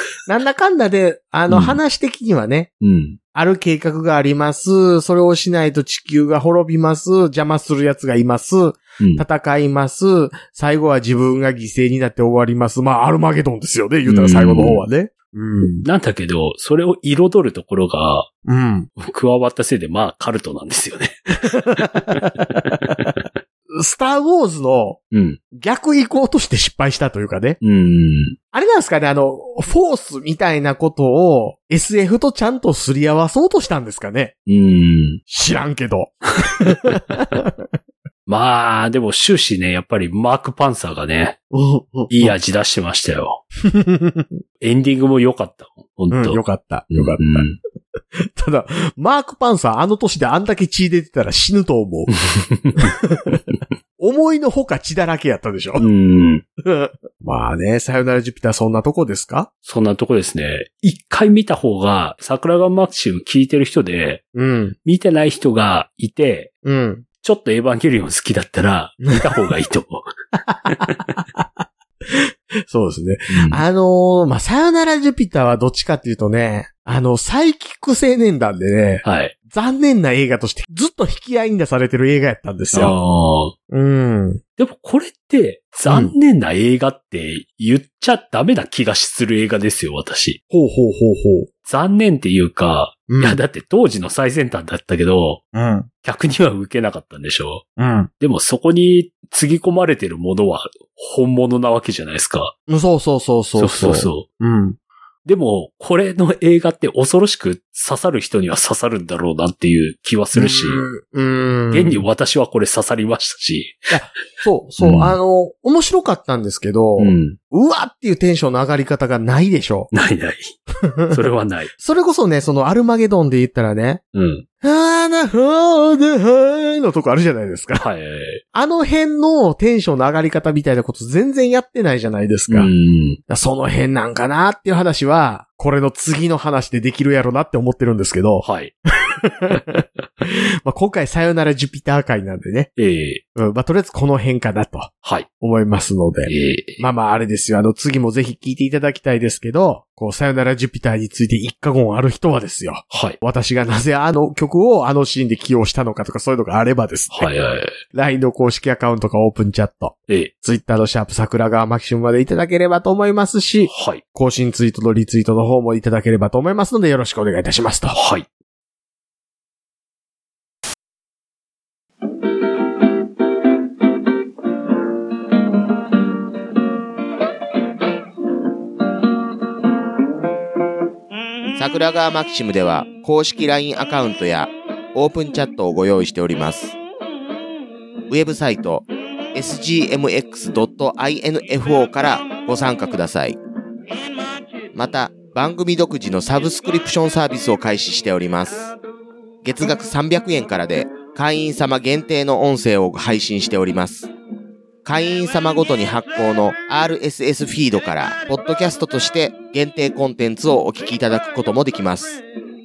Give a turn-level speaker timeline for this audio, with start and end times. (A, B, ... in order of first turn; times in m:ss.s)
0:00.3-0:02.7 A
0:01.5-0:01.8 B
0:02.8-0:03.2 B
0:03.3-0:15.8 A
0:09.0-0:09.2 B
0:14.0-0:14.8 B
0:15.8-0:18.3 B
0:18.4-0:18.9 A
0:19.0-0:21.2 B
0:21.5-0:22.8 A
0:21.8-0:23.2 B
0:23.7-0:25.0 A
0:25.1-0:25.4 B
0:25.5-0:27.6 A
0:27.6-0:28.4 B
0:28.5-0:34.3 A
0:34.5-0:35.2 B
0:35.3-0:37.7 A
0:36.9-0:37.2 B
0:38.3-0:41.4 B
0:41.5-0:42.3 A
0:42.1-0:43.4 B
0:43.6-0:44.4 A
0:44.6-0:47.6 B
0:46.1-0:47.5 A
0:48.2-0:52.1 A
0:52.1-0:53.0 B
0:52.8-0:53.4 A
0:54.0-0:55.9 A
0:55.8-0:56.4 B
0:56.6-0:59.5 A
0:59.6-1:04.2 B
1:04.3-1:04.8 A
1:04.8-1:06.5 B
1:06.6-1:07.0 A
1:07.2-1:10.1 B
1:10.6-1:11.2 B
1:12.1-1:22.9 A
1:13.3-1:13.6 B
1:19.0-1:19.3 B
1:22.7-1:23.5 B
1:23.7-1:24.4 A
1:24.6-1:30.4 B
1:25.9-1:26.1 A
1:30.5-1:31.5 A
1:31.6-1:35.4 B
1:33.1-1:33.4 A
1:35.5-1:35.9 A
1:36.0-1:37.6 B
1:37.8-1:38.1 A
1:38.2-1:42.5 B
1:42.7-1:44.8 A
1:43.6-1:44.2 B
1:45.2-1:50.8 B
1:50.3-1:52.0 A
1:51.7-1:53.9 B
1:53.9-1:59.9 A
1:54.8-1:55.1 B
1:57.0-1:57.4 B
1:59.9-2:00.6 B
2:00.8-2:01.2 A
2:01.1-2:01.7 B
2:01.8-2:04.0 A
2:04.1-2:04.4 B
2:04.6-2:07.8 A
2:07.8-2:08.4 B
2:08.5-2:12.7 A
2:12.5-2:13.2 B
2:13.3-2:18.4 A
2:18.4-2:18.7 B
2:19.0-2:22.7 A
2:22.8-2:23.2 B
2:23.4-2:37.3 A
2:26.2-2:26.8 B
2:32.9-2:33.2 B
2:37.1-2:37.8 B
2:37.9-2:48.0 A
2:43.6-2:44.0 B
2:47.9-2:48.3 B
3:01.6-3:06.8 C
3:08.1-3:13.4 C
3:14.7-3:18.7 C
3:19.4-3:24.1 C
3:24.8-3:32.2 C